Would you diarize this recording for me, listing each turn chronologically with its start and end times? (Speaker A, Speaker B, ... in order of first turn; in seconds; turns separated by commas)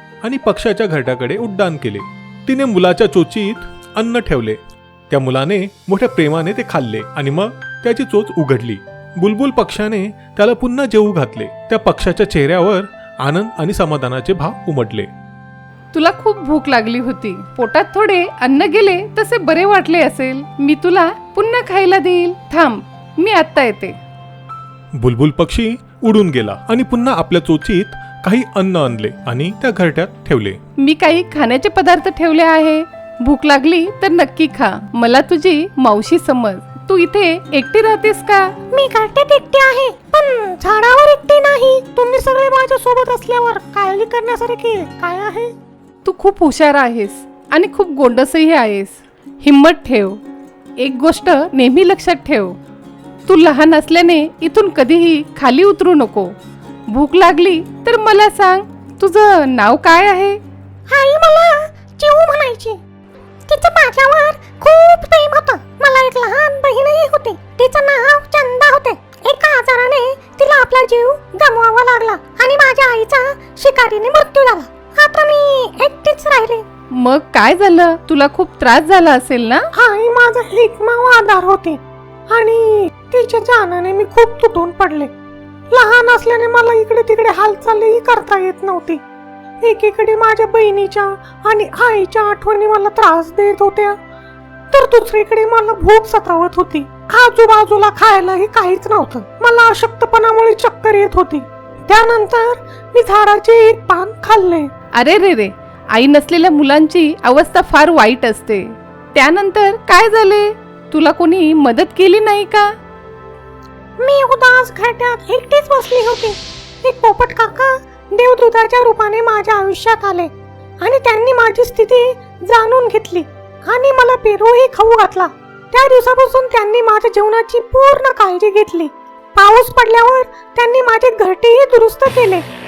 Speaker A: 0.2-15.1, Speaker B: 15.9-24.0, Speaker A: 24.9-30.6, Speaker B: 30.8-38.5, Speaker C: 38.7-45.5, Speaker B: 46.0-50.2, Speaker B: 50.8-52.6, Speaker B: 53.3-56.4, Speaker B: 56.9-60.4, Speaker C: 60.9-62.8, Speaker C: 63.5-76.7, Speaker B: 76.9-79.7, Speaker C: 79.8-85.1, Speaker C: 85.7-89.0, Speaker C: 89.6-94.0, Speaker C: 94.7-104.7, Speaker B: 104.9-112.7, Speaker C: 114.0-132.4